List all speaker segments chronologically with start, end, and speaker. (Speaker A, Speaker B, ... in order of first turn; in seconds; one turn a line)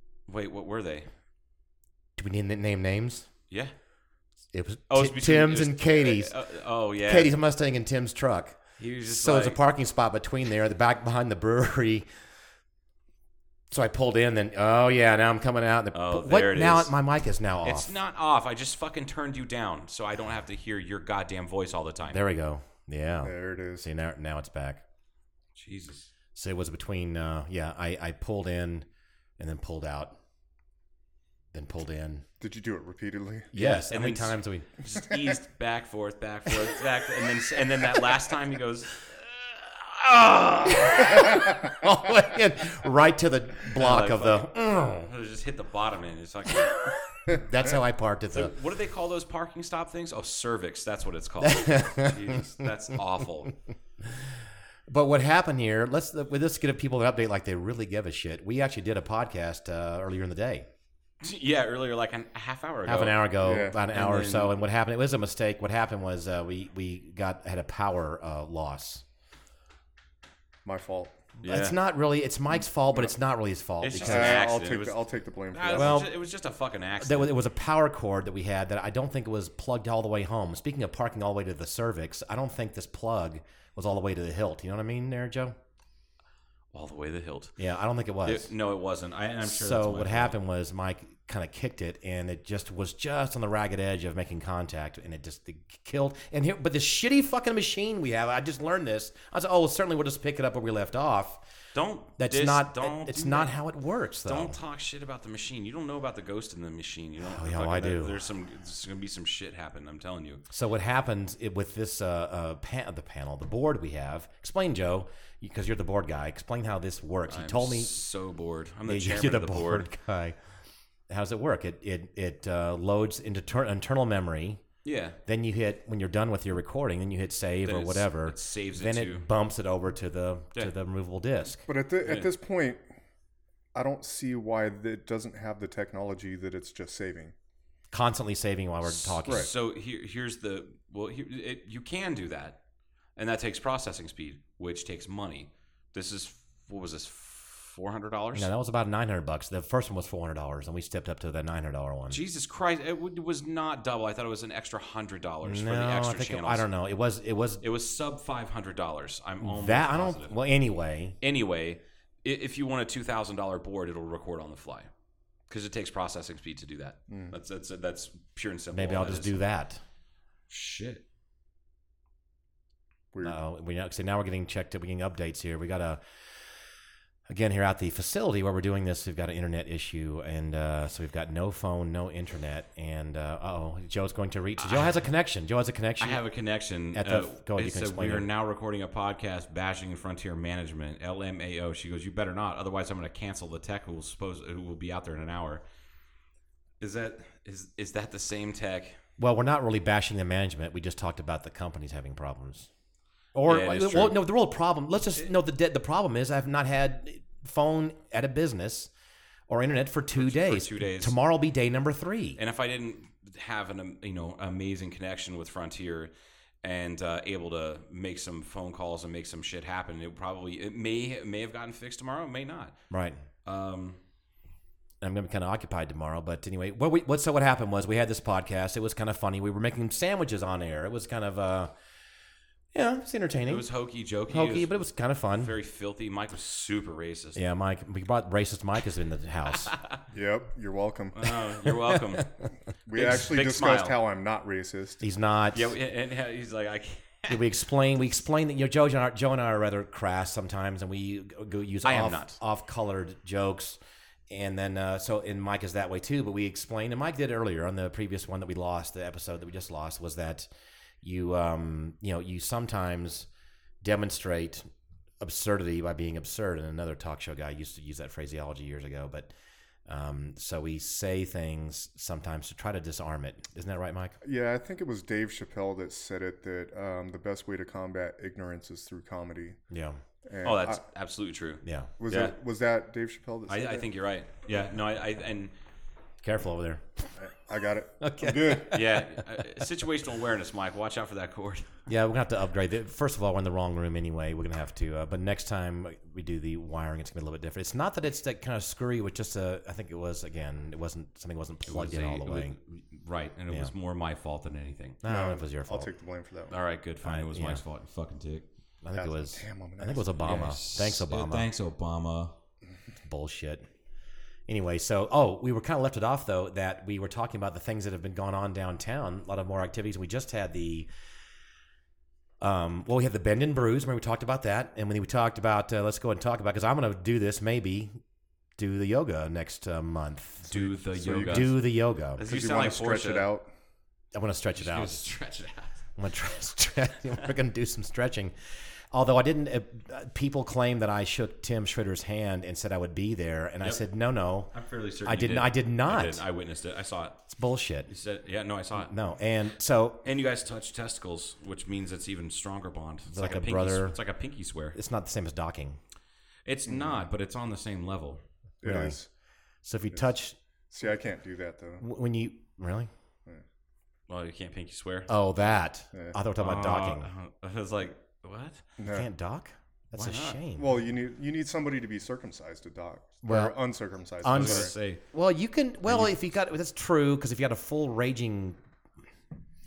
Speaker A: 0.3-1.1
Speaker B: 2.2-3.3
Speaker B: 4.5-6.3
Speaker A: 4.9-7.3
Speaker B: 7.0-12.1
Speaker A: 8.8-9.6
Speaker B: 13.7-17.9
Speaker A: 15.9-16.9
Speaker A: 17.6-22.2
Speaker B: 22.1-24.8
Speaker C: 23.2-23.9
Speaker A: 25.6-26.1
Speaker B: 26.3-28.9
Speaker B: 29.4-30.1
Speaker B: 31.5-32.2
Speaker C: 32.4-33.5
Speaker B: 33.5-34.7
Speaker A: 33.6-39.0
Speaker B: 40.0-45.1
Speaker A: 40.1-40.5
Speaker A: 43.8-46.7
Speaker B: 46.9-48.5
Speaker A: 48.3-53.5
Speaker B: 51.4-52.4
Speaker B: 54.9-60.7
Speaker A: 61.2-64.5
Speaker B: 62.8-69.0
Speaker C: 63.4-63.8
Speaker C: 70.6-71.2
Speaker A: 71.4-71.8
Speaker B: 71.4-74.4
Speaker A: 73.8-75.0
Speaker C: 74.0-76.1
Speaker A: 75.5-77.4
Speaker B: 75.7-76.1
Speaker B: 77.0-85.5
Speaker A: 86.7-87.6
Speaker B: 87.6-88.5
Speaker A: 88.2-90.4
Speaker B: 89.4-101.4
Speaker A: 101.7-103.5
Speaker B: 102.2-104.6
Speaker A: 104.2-110.4
Speaker B: 107.2-108.2
Speaker B: 110.5-117.9
Speaker A: 117.3-119.9
Speaker B: 118.8-120.4
Speaker B: 121.1-124.6
Speaker A: 124.8-125.2
Speaker B: 125.2-131.6
Speaker A: 127.6-129.3
Speaker C: 131.7-132.8
Speaker A: 132.0-132.3
Speaker C: 133.7-137.3
Speaker B: 137.9-139.5
Speaker A: 138.8-142.6
Speaker A: 143.2-148.5
Speaker B: 148.3-152.2
Speaker A: 152.1-156.7
Speaker B: 155.4-157.6
Speaker A: 157.6-160.4
Speaker B: 159.4-161.2
Speaker A: 161.2-164.9
Speaker A: 165.5-169.4
Speaker C: 167.1-167.3
Speaker B: 168.7-169.8
Speaker A: 170.5-171.0
Speaker B: 173.2-176.0
Speaker B: 177.3-186.2
Speaker A: 184.6-184.9
Speaker A: 186.0-195.6
Speaker B: 186.9-188.3
Speaker A: 196.8-199.0
Speaker B: 199.2-202.7
Speaker B: 203.3-208.9
Speaker A: 203.4-204.2
Speaker B: 209.5-212.4
Speaker A: 210.2-211.2
Speaker A: 212.4-216.1
Speaker A: 216.6-222.8
Speaker B: 222.9-223.2
Speaker A: 223.4-224.0
Speaker B: 225.0-231.7
Speaker B: 232.7-233.7
Speaker A: 233.4-234.8
Speaker B: 234.3-235.5
Speaker A: 235.4-237.4
Speaker B: 237.3-239.7
Speaker A: 239.7-239.9
Speaker C: 240.1-241.2
Speaker A: 241.1-242.3
Speaker B: 241.7-242.3
Speaker C: 242.9-245.0
Speaker A: 242.9-243.9
Speaker B: 245.0-245.7
Speaker A: 245.5-247.4
Speaker B: 247.3-253.8
Speaker A: 251.8-252.4
Speaker B: 254.3-260.5
Speaker B: 261.0-263.3
Speaker B: 263.8-264.7
Speaker B: 265.2-269.3
Speaker B: 269.9-274.2
Speaker C: 274.2-279.6
Speaker B: 279.7-280.0
Speaker C: 280.2-280.8
Speaker A: 280.4-282.3
Speaker B: 281.6-281.9
Speaker C: 282.0-283.9
Speaker A: 283.5-285.5
Speaker B: 286.2-287.0
Speaker C: 287.2-288.8
Speaker B: 288.0-289.1
Speaker A: 288.7-291.8
Speaker B: 291.9-302.5
Speaker A: 301.6-305.0
Speaker B: 305.0-305.9
Speaker C: 305.0-306.5
Speaker A: 306.5-308.4
Speaker B: 307.0-307.6
Speaker B: 308.8-311.5
Speaker C: 308.9-310.1
Speaker A: 310.2-312.3
Speaker B: 313.1-313.6
Speaker B: 314.5-320.9
Speaker B: 322.4-327.9
Speaker B: 328.6-332.2
Speaker A: 330.4-331.6
Speaker C: 331.0-331.6
Speaker A: 332.1-333.3
Speaker C: 332.2-333.5
Speaker B: 334.1-335.0
Speaker A: 334.6-335.8
Speaker B: 336.0-338.3
Speaker B: 338.9-346.2
Speaker A: 344.5-347.2
Speaker B: 347.3-347.9
Speaker A: 347.9-348.9
Speaker B: 348.8-350.0
Speaker A: 350.0-354.8
Speaker B: 353.1-354.0
Speaker B: 354.7-355.8
Speaker A: 356.4-358.2
Speaker C: 356.7-357.0
Speaker C: 358.6-359.1
Speaker B: 358.6-359.0
Speaker B: 359.6-360.4
Speaker C: 360.7-361.8
Speaker B: 361.8-362.9
Speaker A: 364.1-365.1
Speaker B: 365.1-367.1
Speaker A: 366.4-368.6
Speaker C: 368.8-369.1
Speaker B: 368.9-370.8
Speaker A: 369.9-370.4
Speaker C: 370.6-374.7
Speaker B: 373.2-373.6
Speaker B: 374.2-378.6
Speaker A: 374.3-375.0
Speaker A: 375.9-376.1